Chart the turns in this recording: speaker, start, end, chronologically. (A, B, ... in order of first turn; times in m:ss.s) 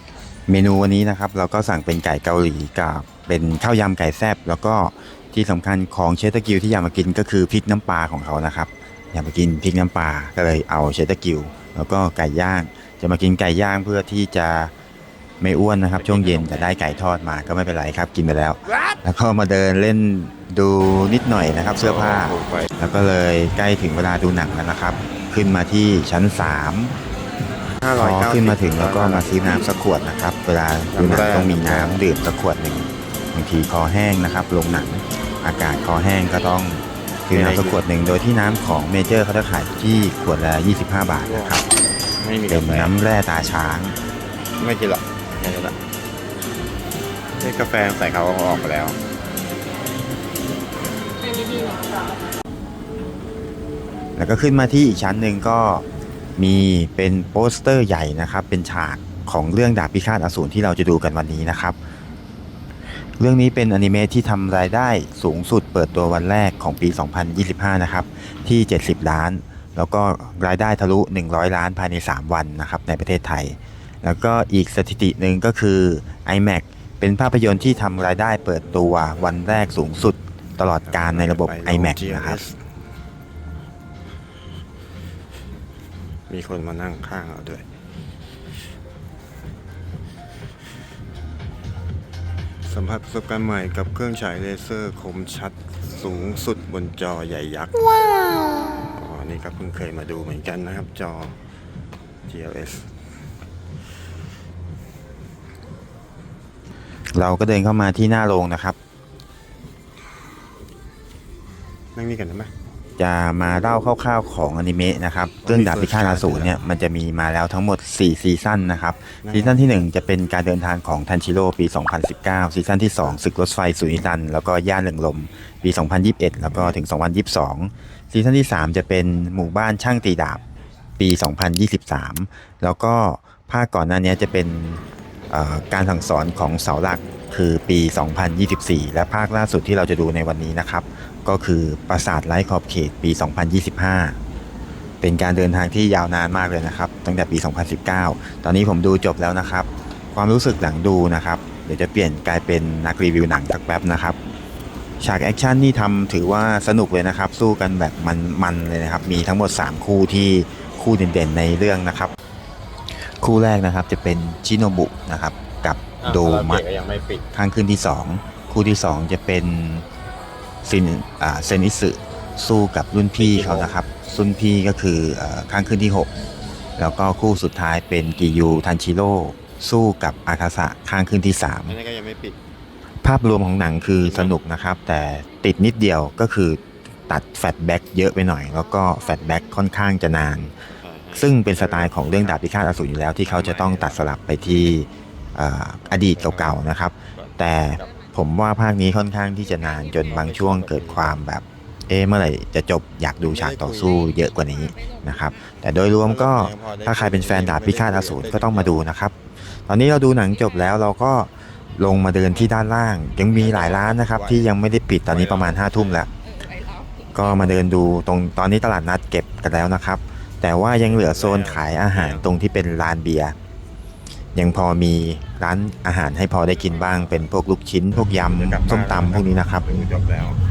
0:00.5-0:14.7 A
0:15.4-0:26.9 A
0:16.0-0:16.7 B
0:21.8-0:22.7 B
0:27.8-0:29.7 B
0:27.9-0:41.6 A
0:30.9-0:32.0 B
0:37.3-0:37.8 B
0:41.2-0:41.6 B
0:42.2-0:42.9 B
0:42.5-0:44.0 A
0:44.6-0:45.8 B
0:47.4-0:49.0 B
0:54.2-0:55.8 A
0:56.4-1:01.8 A
1:03.2-1:22.4 A
1:20.8-1:22.6 B
1:26.3-1:27.6 B
1:32.6-1:37.9 B
1:38.8-1:41.4 B
1:42.3-1:42.9 B
1:47.1-1:48.8 A
1:52.0-1:52.5 B
1:53.0-2:10.4 A
1:55.4-1:56.6 B
1:59.2-1:59.6 B
2:06.5-2:06.8 B
2:11.0-2:24.2 A
2:25.0-2:34.2 A
2:35.0-2:42.1 A
2:43.0-2:46.6 A
2:46.0-2:47.2 B
2:47.3-2:49.8 A
2:50.6-2:56.1 A
2:53.2-2:53.8 B
2:56.8-3:01.8 A
3:01.7-3:02.4 B
3:03.0-3:10.6 A
3:04.0-3:04.4 B
3:10.3-3:12.4 B
3:11.1-3:36.1 A
3:13.2-3:14.8 B
3:15.8-3:17.4 B
3:20.0-3:21.1 B
3:23.2-3:24.0 B
3:26.0-3:28.8 B
3:33.3-3:34.5 B
3:35.1-3:36.1 B
3:37.1-3:43.3 A
3:40.8-3:42.3 B
3:44.3-3:49.8 A
3:46.9-3:47.2 B
3:48.2-3:50.4 B